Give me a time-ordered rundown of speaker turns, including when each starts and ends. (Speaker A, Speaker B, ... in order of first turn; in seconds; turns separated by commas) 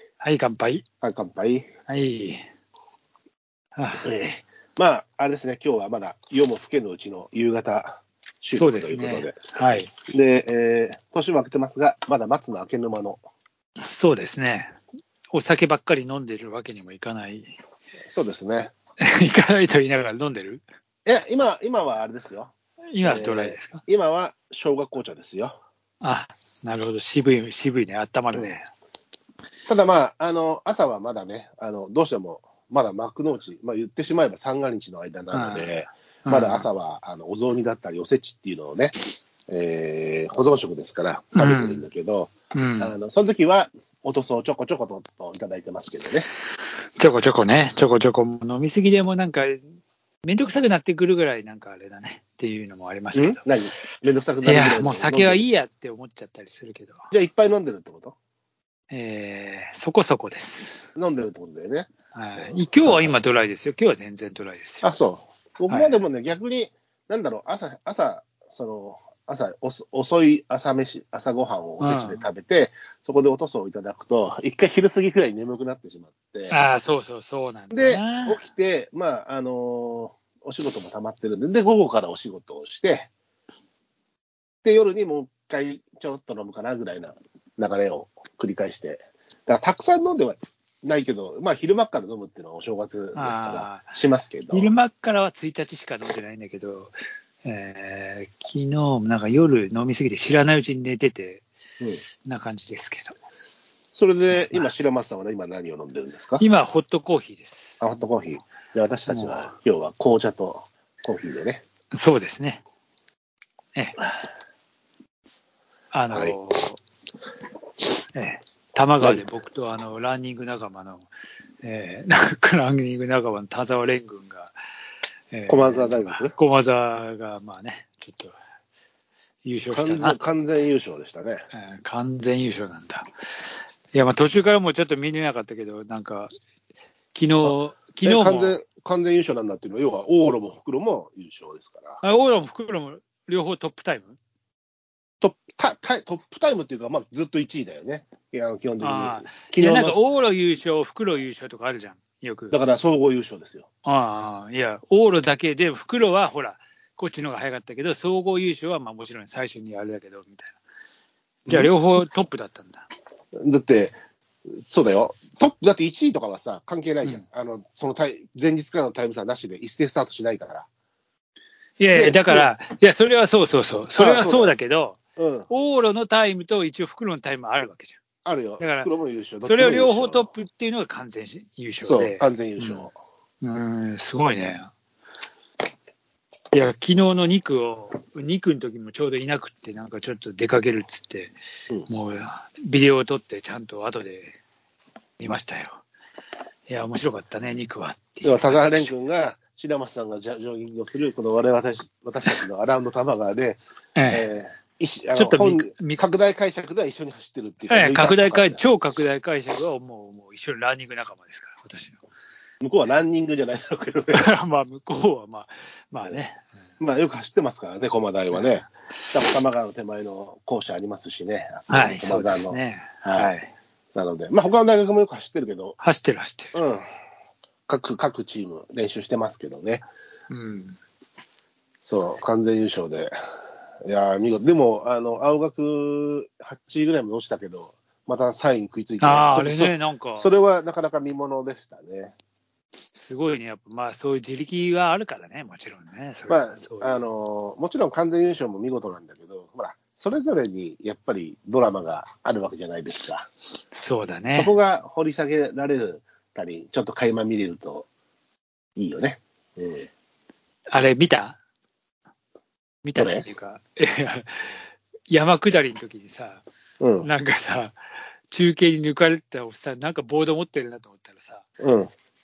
Speaker A: 0.2-0.8, Speaker B: 1.0-1.7, Speaker A: 1.9-2.5, Speaker A: 3.8-4.1, Speaker B: 4.0-9.4, Speaker A: 8.5-9.9, Speaker B: 10.1-13.2, Speaker A: 13.8-14.8, Speaker A: 15.3-17.5, Speaker B: 18.1-18.7, Speaker A: 19.0-20.6, Speaker B: 21.1-22.5, Speaker A: 22.9-23.8, Speaker B: 23.0-25.6, Speaker A: 26.0-28.7, Speaker B: 28.3-28.6, Speaker B: 29.7-46.3, Speaker A: 35.3-36.7, Speaker A: 41.3-41.8, Speaker A: 42.5-42.9, Speaker A: 47.0-49.6, Speaker A: 50.2-53.8, Speaker B: 53.1-55.4, Speaker A: 54.4-57.0, Speaker B: 57.1-58.1, Speaker A: 58.9-60.9, Speaker B: 61.0-63.1, Speaker A: 62.1-64.8, Speaker B: 64.8-76.6, Speaker A: 65.7-66.0, Speaker A: 71.8-72.2, Speaker A: 76.5-78.4, Speaker B: 77.7-83.1, Speaker B: 84.6-94.7, Speaker A: 93.1-93.9, Speaker A: 94.5-101.5, Speaker A: 102.2-103.1, Speaker B: 103.9-106.4, Speaker A: 104.3-104.7, Speaker A: 106.4-107.8, Speaker B: 107.8-111.6, Speaker A: 109.1-109.5, Speaker A: 111.9-112.6, Speaker A: 115.9-116.8, Speaker B: 116.1-116.4, Speaker A: 118.1-121.1, Speaker A: 121.6-124.5, Speaker A: 125.3-128.3, Speaker B: 125.5-126.3, Speaker A: 129.4-130.2, Speaker B: 129.7-131.4, Speaker A: 131.5-133.1, Speaker A: 133.9-136.3, Speaker A: 137.1-138.6, Speaker B: 137.4-142.0, Speaker A: 142.0-144.2, Speaker B: 145.2-150.0, Speaker A: 148.8-152.6, Speaker B: 152.5-153.7, Speaker A: 153.8-160.6, Speaker A: 161.5-162.9, Speaker B: 161.5-161.7, Speaker B: 163.3-163.9, Speaker B: 164.5-170.7, Speaker A: 171.8-175.0, Speaker B: 171.9-172.5, Speaker B: 173.9-174.5, Speaker B: 175.2-175.5, Speaker A: 175.5-178.0, Speaker B: 178.2-180.3, Speaker A: 178.6-178.9, Speaker A: 179.4-182.9, Speaker B: 181.8-182.9, Speaker A: 183.4-184.7, Speaker A: 186.5-191.3, Speaker A: 191.9-194.4, Speaker A: 195.2-195.8, Speaker A: 196.7-198.9, Speaker B: 198.2-208.7, Speaker A: 203.9-204.3, Speaker A: 205.2-206.0, Speaker A: 207.7-212.0, Speaker B: 212.6-214.3, Speaker A: 214.1-216.4, Speaker B: 216.8-223.3, Speaker A: 218.3-218.7, Speaker A: 221.7-223.5, Speaker B: 223.9-225.8, Speaker A: 225.8-226.6, Speaker B: 226.5-226.8, Speaker B: 227.7-229.8, Speaker A: 230.3-230.8, Speaker B: 231.8-233.1, Speaker B: 233.8-242.1, Speaker A: 239.0-240.3, Speaker A: 242.9-247.0, Speaker B: 246.3-253.3, Speaker A: 253.7-254.5, Speaker B: 254.3-257.9, Speaker B: 258.8-259.9, Speaker A: 260.7-261.4, Speaker A: 262.8-264.6, Speaker B: 262.9-263.2, Speaker A: 265.1-266.4, Speaker B: 266.8-267.1, Speaker A: 267.0-267.8, Speaker A: 268.3-271.4, Speaker B: 271.6-271.9